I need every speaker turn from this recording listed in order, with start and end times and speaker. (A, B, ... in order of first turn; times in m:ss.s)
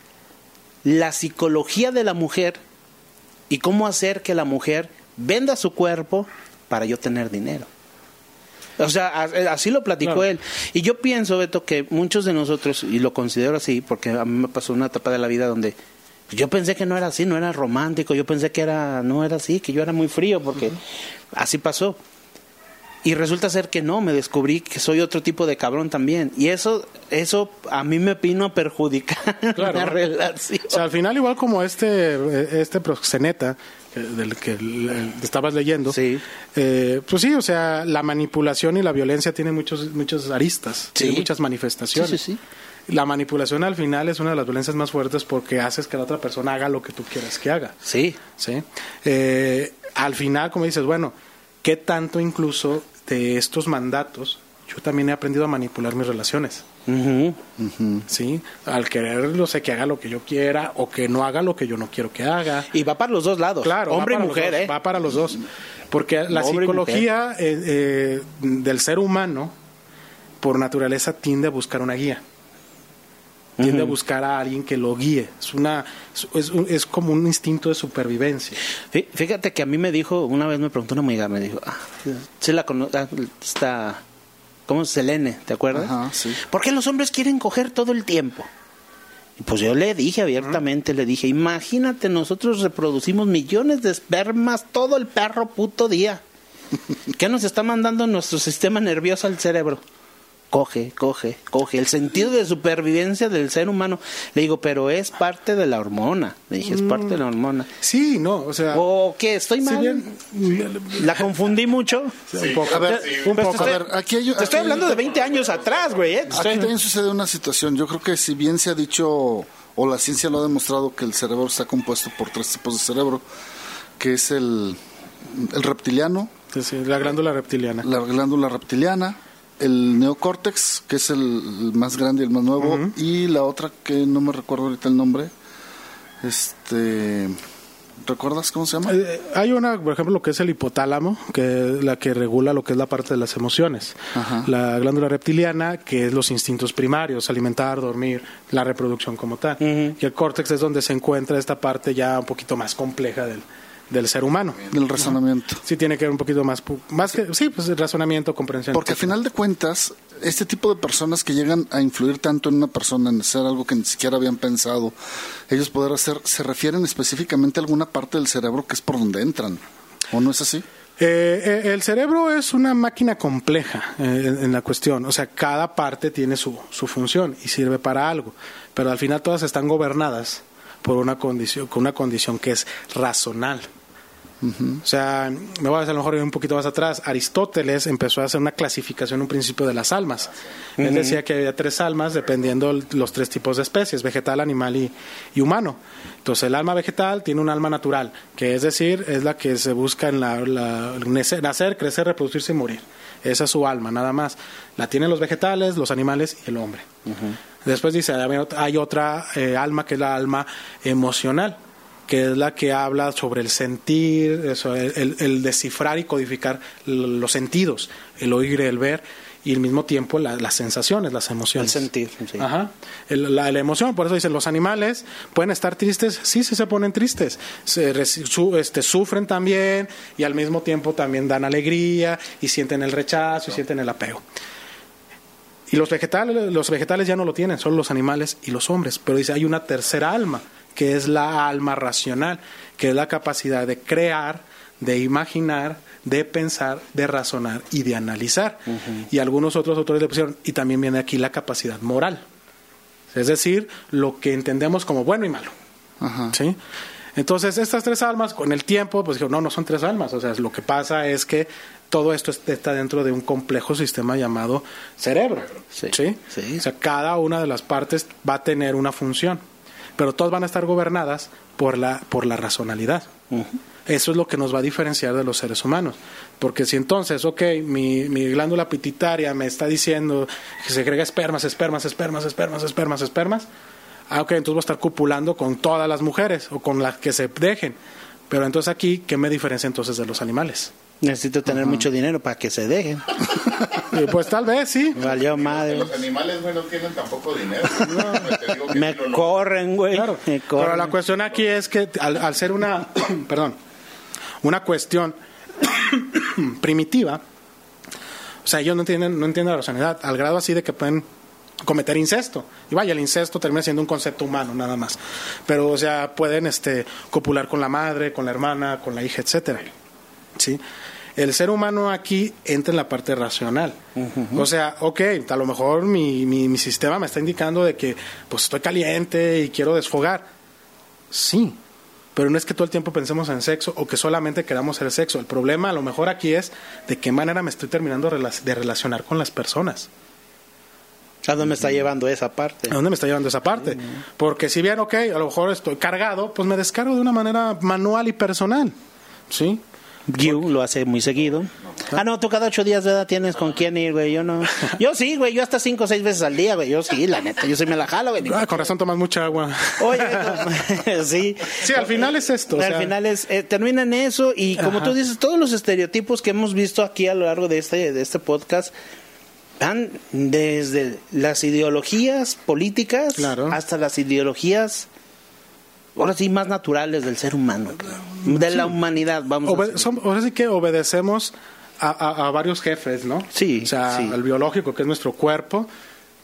0:00.8-0:02.6 A
0:03.5-0:07.7 A
0:08.8-0:15.7 A
0:16.3-0:20.8 A
0:21.3-0:22.0 A
0:23.0-0:30.8 A
0:29.6-0:30.0 B
0:30.7-0:36.0 B
0:35.9-0:36.2 A
0:36.5-0:42.2 B
0:40.9-0:41.3 A
0:41.9-0:42.4 A
0:42.9-0:47.8 B
0:47.8-0:48.2 A
0:48.3-0:56.6 B
0:56.9-0:57.4 A
0:57.6-0:58.0 C
0:58.1-1:02.7 B
1:02.7-1:04.7 A
1:03.6-1:09.5 B
1:06.3-1:07.1 A
1:10.4-1:12.2 B
1:13.6-1:13.9 A
1:13.6-1:18.6 B
1:18.9-1:24.0 A
1:24.7-1:25.9 A
1:25.7-1:26.4 C
1:26.4-1:28.5 A
1:29.4-1:36.2 A
1:37.1-1:39.8 A
1:40.5-1:47.7 A
1:46.7-1:47.2 B
1:47.8-1:48.8 B
1:48.7-1:50.2 A
1:49.6-1:51.2 B
1:50.9-1:52.3 A
1:52.3-1:53.8 B
1:52.3-1:53.6 D
1:52.7-1:54.8 C
1:53.1-1:53.8 A
1:54.4-1:56.7 A
1:54.4-1:56.3 D
1:56.3-2:03.2 C
2:04.0-2:06.3 C
2:06.5-2:07.8 B
2:07.8-2:15.3 C
2:12.6-2:12.9 B
2:16.2-2:17.4 C
2:18.0-2:19.0 C
2:18.9-2:39.1 B
2:24.1-2:24.5 C
2:29.6-2:30.0 A
2:34.7-2:35.6 C
2:38.7-2:44.9 C
2:45.5-2:50.6 C
2:51.0-3:03.7 B
3:04.4-3:04.8 C
3:04.8-3:26.8 B
3:10.8-3:11.2 A
3:27.0-3:27.4 A
3:27.6-3:31.6 B
3:32.1-3:41.8 B
3:41.6-3:42.5 A
3:42.4-3:54.2 B
3:55.7-4:12.2 B
4:08.7-4:09.0 A
4:13.1-4:15.5 B
4:16.0-4:16.4 C
4:16.3-4:16.6 B
4:17.2-4:29.4 B
4:25.7-4:26.6 A
4:30.0-4:33.1 B
4:33.3-4:33.6 A
4:33.8-4:43.5 B
4:44.1-4:47.8 B
4:48.3-4:50.7 B
4:51.0-4:53.3 A
4:51.5-4:51.9 C
4:53.9-4:55.0 B
4:54.9-4:55.9 A
4:55.0-4:59.5 D
4:57.9-4:58.2 B
4:58.7-5:00.9 A
4:59.9-5:03.6 B
5:04.4-5:07.2 B
5:08.4-5:11.0 B
5:11.6-5:19.7 B
5:20.4-5:20.6 B
5:21.2-5:23.8 B
5:24.0-5:24.4 A
5:24.4-5:30.3 B
5:31.1-5:31.6 B
5:32.1-5:39.9 B
5:41.3-5:42.8 A
5:42.7-5:48.7 B
5:49.3-5:49.6 B
5:50.1-5:58.7 A
5:58.2-6:00.4 B
5:59.8-6:08.7 A
6:01.6-6:02.9 B
6:04.6-6:04.9 B
6:09.6-6:14.9 A
6:13.2-6:13.6 B
6:16.0-6:19.9 A
6:18.2-6:18.7 B
6:19.4-6:25.7 B
6:23.3-6:24.2 A